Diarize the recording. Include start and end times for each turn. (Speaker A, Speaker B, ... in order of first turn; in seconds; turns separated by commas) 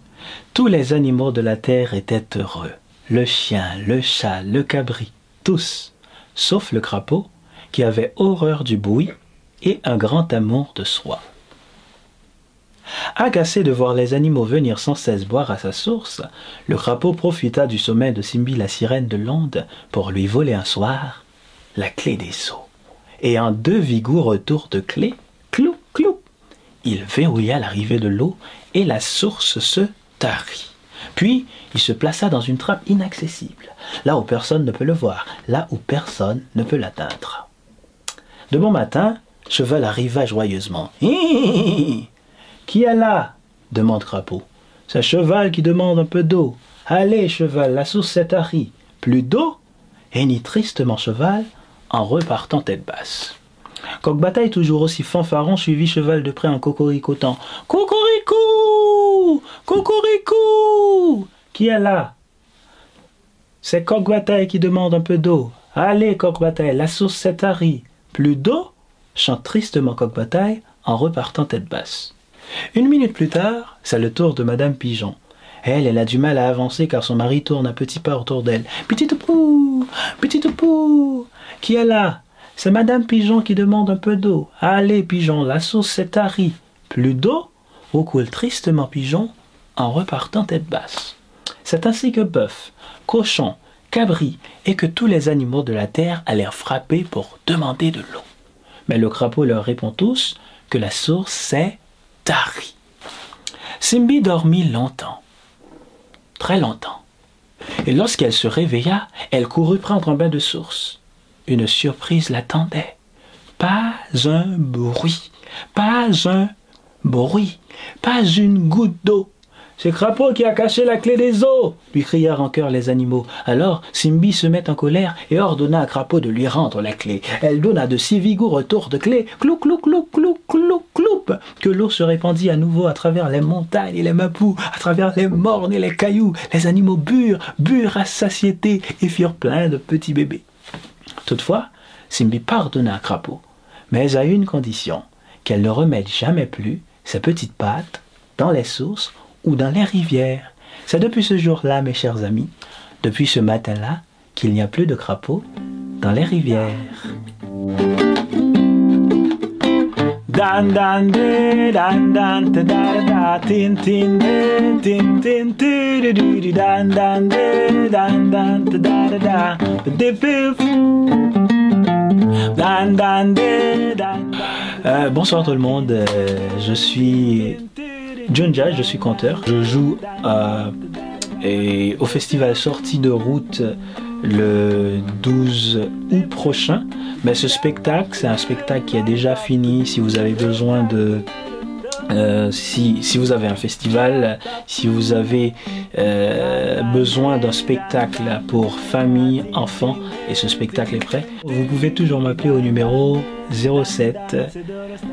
Speaker A: 0.5-11.2, Speaker A: 13.2-22.7, Speaker A: 23.2-26.2, Speaker A: 26.8-37.5, Speaker A: 38.5-42.1, Speaker A: 42.6-49.6, Speaker A: 50.1-53.4, Speaker A: 54.0-62.1, Speaker A: 63.6-72.1, Speaker A: 72.7-98.2, Speaker A: 98.9-102.8, Speaker A: 103.8-105.2, Speaker A: 106.4-107.0, Speaker A: 107.8-113.0, Speaker A: 113.6-116.5, Speaker A: 117.0-140.4, Speaker A: 141.2-152.5, Speaker A: 153.0-155.4, Speaker A: 156.0-157.2, Speaker A: 160.3-171.0, Speaker A: 172.4-177.7, Speaker A: 178.2-180.8, Speaker A: 181.3-191.3, Speaker A: 192.1-204.6